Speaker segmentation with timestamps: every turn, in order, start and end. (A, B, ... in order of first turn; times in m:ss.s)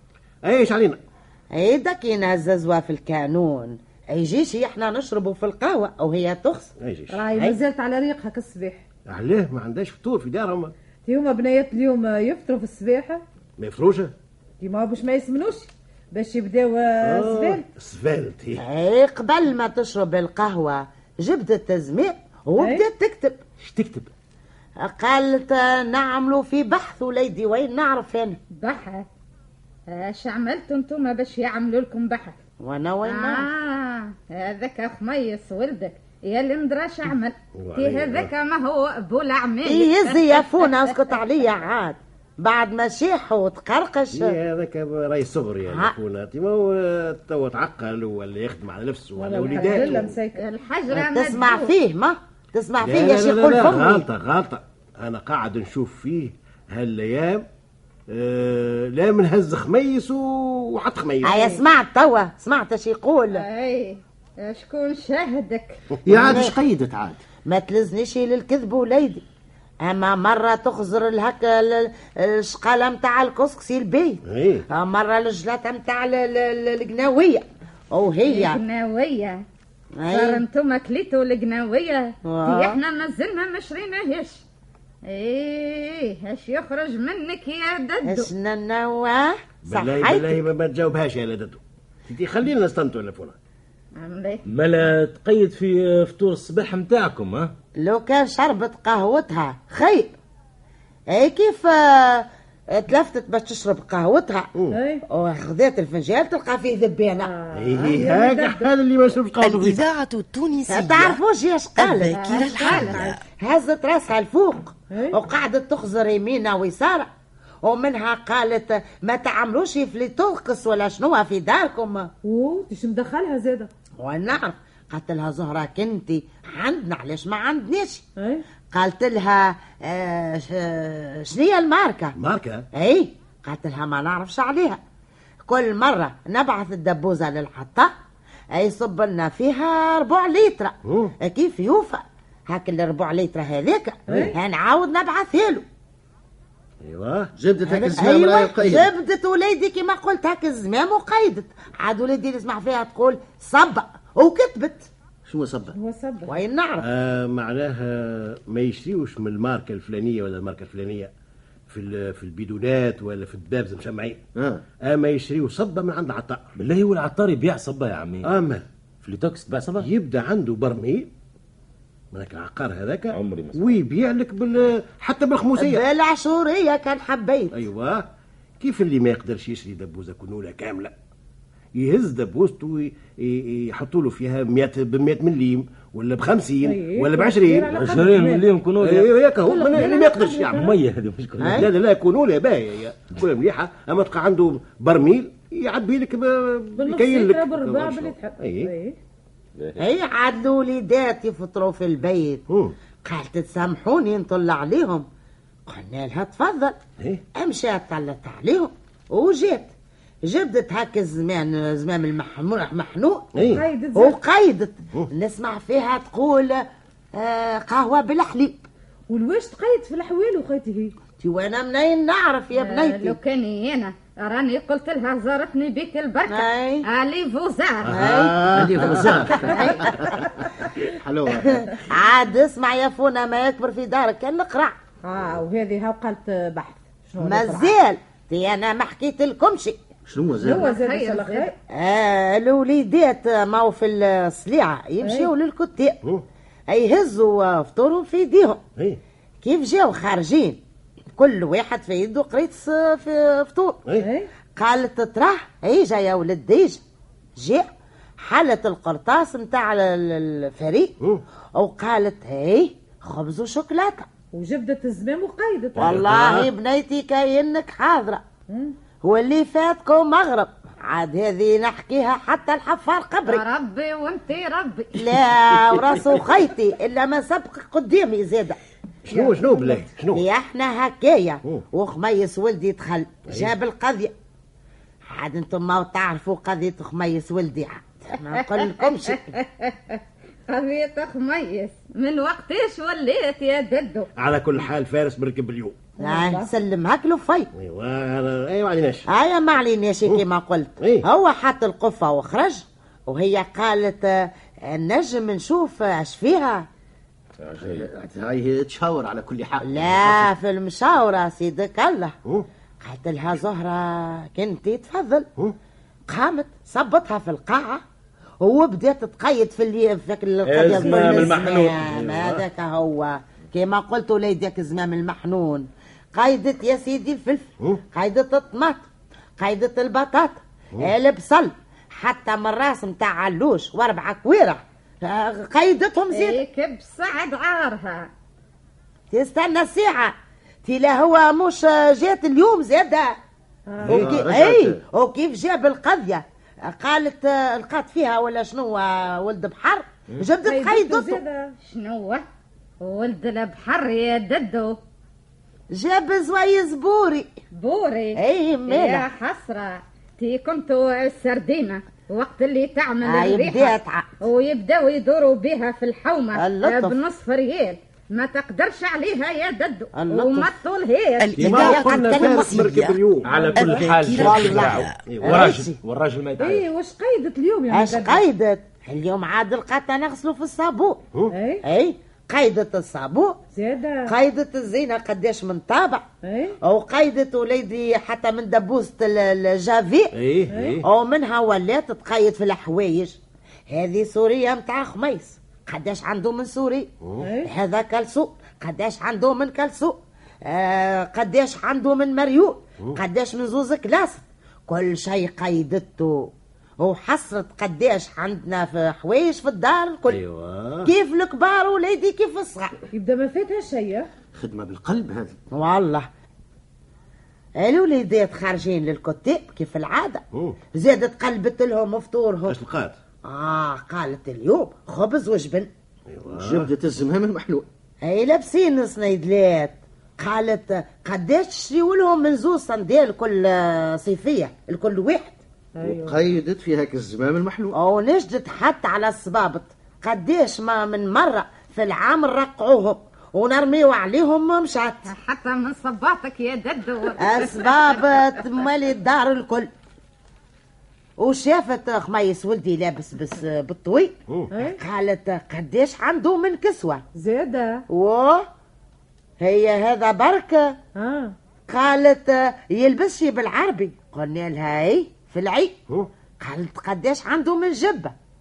0:00.4-0:01.0 A
0:01.5-0:06.7 B
0:06.8-0:07.3 A
0:07.1-0:08.8 C
0:09.1-0:10.7 A
0:11.0-0:13.2 C
0:13.6-0:14.1 A
0:14.6-0:17.6 C
0:17.0-0:18.6 A
0:18.6-0:23.4 B
0:22.6-0:22.8 C
0:23.6-0:24.1 D
0:24.8-0:28.4 B
0:28.5-0:29.0 E
0:29.9-0:32.4 E
0:32.6-0:33.5 B
0:33.0-0:41.1 E
0:37.6-0:38.3 A
0:39.6-0:44.4 B
0:44.1-0:50.2 A
0:45.6-0:46.0 B
0:49.2-0:50.4 C
0:49.6-0:51.7 E
0:50.9-0:54.0 B
0:52.8-0:57.4 A
0:58.1-1:01.5 A
1:01.2-1:03.4 B
1:03.3-1:05.8 E
1:06.0-1:07.2 F
1:06.1-1:06.4 A
1:06.1-1:06.6 B
1:07.5-1:09.2 B
1:09.8-1:14.2 B
1:14.2-1:14.6 A
1:14.7-1:18.6 B
1:18.2-1:19.4 E
1:20.0-1:20.4 B
1:20.1-1:24.4 E
1:22.3-1:22.8 B
1:25.0-1:28.3 E
1:28.0-1:30.4 B
1:29.6-1:33.4 A
1:34.0-1:34.4 E
1:34.5-1:37.5 D
1:37.8-1:40.1 B
1:41.1-1:44.5 B
1:44.5-1:44.8 A
1:44.7-1:45.0 C
1:45.1-1:47.3 B
1:47.2-1:48.7 C
1:47.5-1:49.9 A
1:49.4-1:51.2 G
1:50.7-1:57.1 B
1:51.8-1:53.2 G
1:52.2-1:52.7 E
1:52.6-1:53.2 C
1:54.9-1:55.2 C
1:57.6-2:02.1 B
2:02.2-2:03.7 C
2:04.0-2:08.0 B
2:08.2-2:08.4 C
2:08.7-2:12.1 B
2:12.1-2:12.7 A
2:12.7-2:14.8 B
2:15.5-2:17.9 B
2:18.5-2:25.6 B
2:20.8-2:21.2 A
2:26.8-2:27.3 A
2:27.4-2:28.9 F
2:27.6-2:34.9 B
2:35.3-2:35.8 F
2:35.7-2:36.3 C
2:36.3-2:36.9 B
2:36.8-2:41.1 A
2:41.7-2:44.2 A
2:44.4-2:44.6 F
2:44.8-2:46.4 A
2:46.6-2:48.3 D
2:48.2-2:48.6 A
2:49.0-2:49.9 D
2:49.8-2:51.1 A
2:52.1-2:55.8 A
2:53.1-2:53.7 D
2:55.6-2:57.6 B
2:57.5-2:58.0 A
2:58.6-3:00.9 A
3:01.8-3:07.8 A
3:06.6-3:08.5 C
3:07.7-3:09.1 D
3:08.8-3:10.6 A
3:09.5-3:10.7 C
3:10.5-3:11.7 D
3:11.4-3:11.7 B
3:11.5-3:18.7 A
3:16.8-3:19.0 C
3:19.6-3:19.8 D
3:19.8-3:22.4 B
3:22.5-3:22.8 A
3:23.0-3:25.0 B
3:25.7-3:26.8 B
3:27.0-3:27.3 A
3:27.3-3:29.7 B
3:30.2-3:33.4 B
3:33.3-3:33.6 A
3:33.5-3:34.2 C
3:33.9-3:36.6 B
3:37.2-3:38.6 B
3:39.1-3:40.9 C
3:41.2-3:43.2 B
3:42.6-3:48.0 E
3:46.3-3:46.8 B
3:47.8-3:49.1 A
3:47.9-3:49.9 B
3:48.5-3:50.2 F
3:50.8-3:51.6 F
3:51.3-3:54.7 B
3:55.0-3:57.7 C
3:57.2-3:59.8 B
4:00.0-4:00.7 F
4:00.4-4:01.5 E
4:00.4-4:01.5 C
4:01.7-4:06.0 B
4:05.0-4:05.3 C
4:06.7-4:08.6 B
4:09.4-4:10.6 B
4:11.2-4:13.8 B
4:14.0-4:14.3 C
4:14.6-4:16.8 B
4:17.4-4:17.6 B
4:18.2-4:20.9 B
4:21.6-4:24.1 B
4:24.3-4:25.9 C
4:25.8-4:26.5 A
4:25.8-4:28.2 B
4:28.5-4:28.7 C
4:29.0-4:33.4 B
4:33.2-4:35.0 E
4:34.9-4:38.6 B
4:39.0-4:40.2 A
4:39.1-4:39.8 C
4:40.1-4:44.1 B
4:43.3-4:43.5 A
4:45.1-4:49.3 B
4:49.1-4:54.1 E
4:54.2-4:55.9 A
4:56.0-4:56.5 C
4:56.0-4:57.5 B
4:57.5-4:59.1 A
4:59.1-5:06.7 B
5:00.8-5:01.1 A
5:07.4-5:07.9 D
5:07.6-5:10.3 F
5:09.6-5:12.1 B
5:12.8-5:15.3 B
5:16.1-5:17.8 B
5:18.4-5:28.8 B
5:20.4-5:22.2 D
5:29.4-5:36.4 B
5:36.1-5:38.1 E
5:39.1-5:40.1 B
5:40.6-5:43.1 B
5:43.7-5:44.0 C
5:43.8-5:44.8 F
5:43.9-5:51.2 B
5:50.4-5:51.6 C
5:51.6-5:52.2 E
5:52.8-5:54.8 E
5:55.7-5:57.3 B
5:57.5-6:11.7 E
5:58.2-5:59.1 B
6:03.0-6:04.1 B
6:06.3-6:07.0 B
6:10.0-6:10.5 B
6:11.2-6:13.0 G
6:11.3-6:13.3 A
6:11.5-6:12.6 B
6:13.2-6:13.9 C
6:13.3-6:16.7 D
6:13.6-6:15.0 G
6:14.1-6:14.7 B
6:15.0-6:15.4 A
6:15.2-6:15.8 B
6:16.4-6:18.2 C
6:17.7-6:21.0 B
6:21.3-6:21.6 C
6:21.6-6:23.4 B
6:23.5-6:24.1 C
6:24.0-6:26.0 B
6:26.2-6:26.6 C
6:26.6-6:30.1 B
6:30.1-6:30.8 A
6:30.5-6:30.8 C
6:30.8-6:33.2 B
6:33.7-6:36.9 B
6:37.0-6:37.3 A
6:37.2-6:37.5 C
6:37.4-6:50.2 B
6:50.1-6:50.9 A
6:50.8-6:52.7 B
6:52.9-6:54.1 C
6:54.3-6:55.3 F
6:55.5-6:56.1 B
6:57.6-7:02.6 B
7:00.3-7:00.6 A
7:02.5-7:03.0 A
7:03.2-7:05.7 B
7:06.1-7:06.7 A
7:06.3-7:07.7 F
7:08.0-7:15.4 B
7:15.8-7:16.2 C
7:15.8-7:17.7 F
7:17.7-7:25.1 B
7:25.0-7:28.0 E
7:27.2-7:29.7 B
7:31.2-7:34.2 B
7:34.5-7:34.8 C
7:34.7-7:37.0 B
7:37.1-7:37.8 C
7:37.9-7:38.4 B
7:39.4-7:40.8 B
7:41.0-7:41.3 C
7:41.7-7:45.8 B
7:46.4-7:48.1 B